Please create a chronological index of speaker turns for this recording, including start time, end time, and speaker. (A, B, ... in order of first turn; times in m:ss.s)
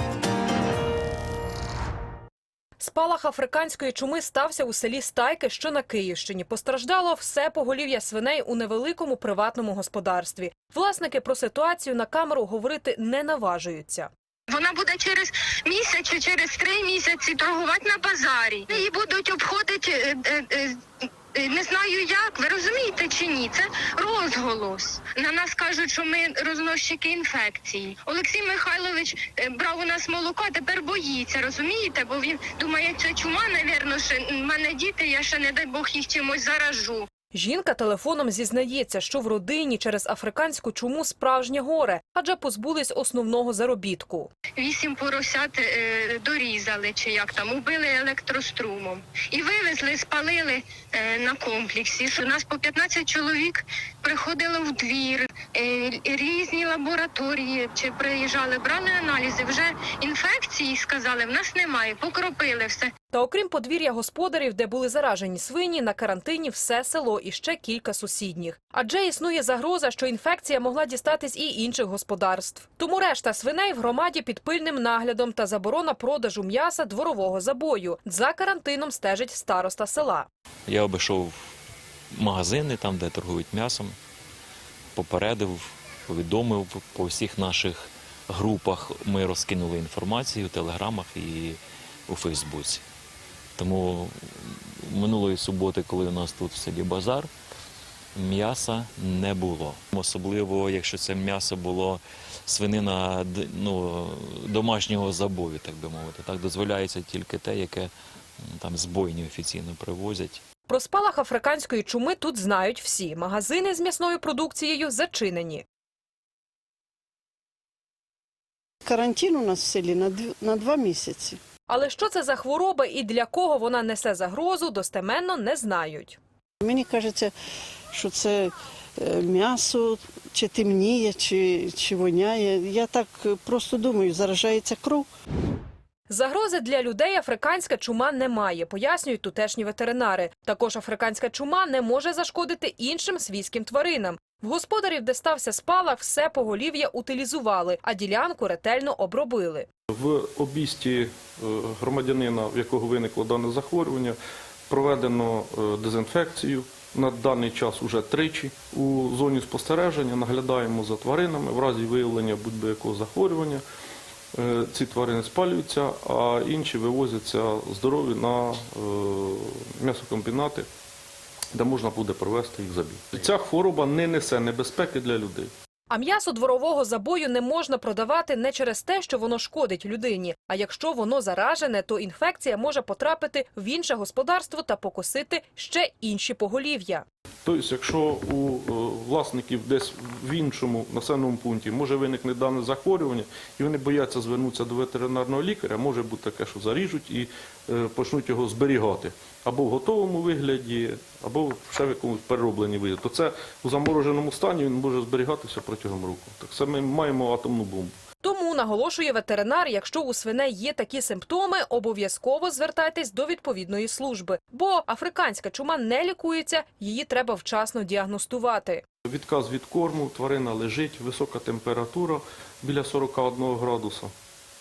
0:02.8-0:14.1 A
0:14.5-0:20.6 B
0:21.3-0:37.0 B
0:37.3-0:44.3 A
0:44.6-1:02.8 B
1:03.1-1:20.3 A
1:20.7-1:21.4 C
1:22.1-1:24.0 C
1:25.0-1:32.8 C
1:33.6-1:37.3 C
1:38.2-1:47.9 C
1:48.4-1:50.4 C
1:50.7-1:55.6 A
1:58.8-2:01.4 D
2:01.7-2:06.2 A
2:06.6-2:07.3 D
2:07.9-2:15.1 D
2:16.1-2:29.7 A
2:29.9-2:34.2 E
2:34.7-2:43.6 E
2:44.4-2:50.7 E
2:51.5-2:55.5 E
2:55.9-3:07.0 A
3:07.4-3:28.0 E
3:28.2-3:38.8 A
3:39.1-3:44.1 E